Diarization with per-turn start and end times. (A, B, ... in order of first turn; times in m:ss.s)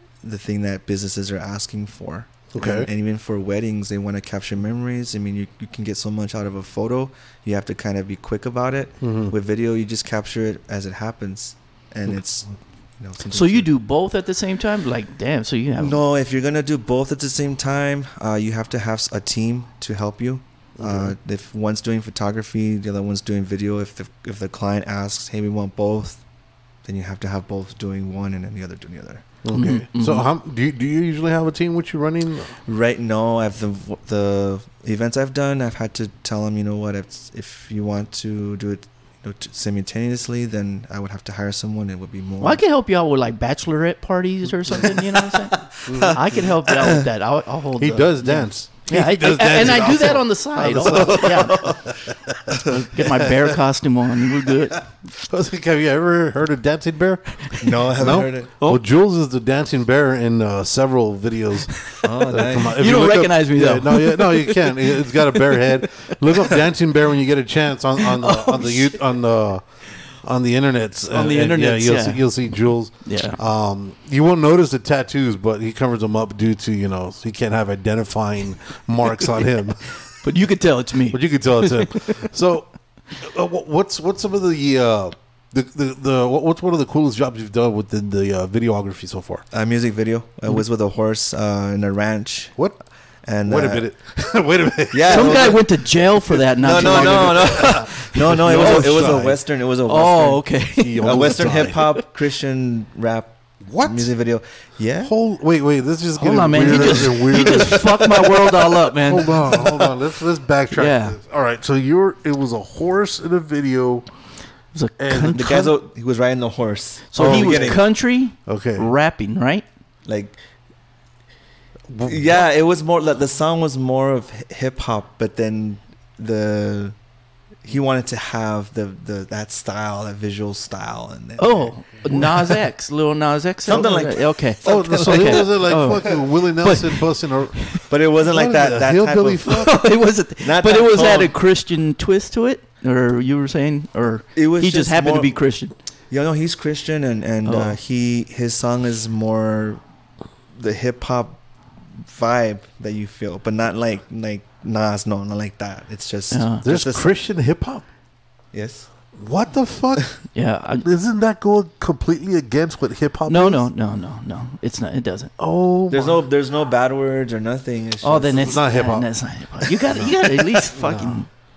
0:00.2-0:13.7 A
0:02.5-0:02.9 B
0:09.0-0:09.3 B
0:13.3-0:16.0 C
0:15.8-0:26.2 A
0:20.8-0:21.1 B
0:26.8-0:29.2 A
0:29.4-0:32.5 B
0:29.5-0:30.2 C
0:32.7-0:42.6 A
0:42.4-0:51.8 C
0:44.7-0:47.0 A
0:45.9-0:46.4 B
0:47.8-0:53.4 B
0:49.6-0:50.0 A
0:50.7-0:51.9 A
0:52.5-0:54.8 C
0:55.2-1:09.6 B
0:57.6-0:58.5 A
1:02.0-1:02.8 A
1:02.7-1:06.5 C
1:08.0-1:09.0 C
1:10.2-1:19.9 B
1:11.1-1:13.4 C
1:20.2-1:22.2 C
1:21.1-1:29.4 B
1:29.5-1:32.6 A
1:33.3-1:33.9 A
1:33.5-1:35.6 B
1:34.9-1:35.6 A
1:35.1-1:39.2 C
1:36.3-1:39.4 B
1:36.6-1:40.4 A
1:39.9-1:41.4 C
1:40.8-1:41.8 B
1:41.0-1:45.1 A
1:43.6-1:44.1 B
1:45.0-1:54.0 B
1:46.2-1:49.9 C
1:50.7-1:51.2 C
1:54.7-1:55.7 C
1:55.0-1:55.5 B
1:55.3-1:57.8 A
1:57.1-1:59.6 C
1:57.2-1:57.8 B
1:58.5-1:58.9 B
2:00.1-2:00.4 A
2:01.9-2:02.4 B
2:02.0-2:07.0 A
2:07.6-2:12.6 A
2:11.4-2:17.8 C
2:13.7-2:15.6 A
2:14.6-2:19.8 B
2:17.9-2:19.7 A
2:19.5-2:25.7 C
2:20.4-2:21.4 A
2:24.4-2:25.4 A
2:26.1-2:29.8 A
2:27.4-2:27.8 C
2:30.5-2:31.4 A
2:31.9-2:37.1 A
2:36.3-2:36.6 C
2:36.6-2:37.8 B
2:38.5-2:38.9 A
2:39.2-2:40.2 B
2:40.3-2:40.9 C
2:40.8-2:43.6 B
2:43.3-2:45.3 C
2:45.4-2:46.2 B
2:45.9-2:48.6 A
2:48.0-2:51.3 C
2:48.4-2:51.2 B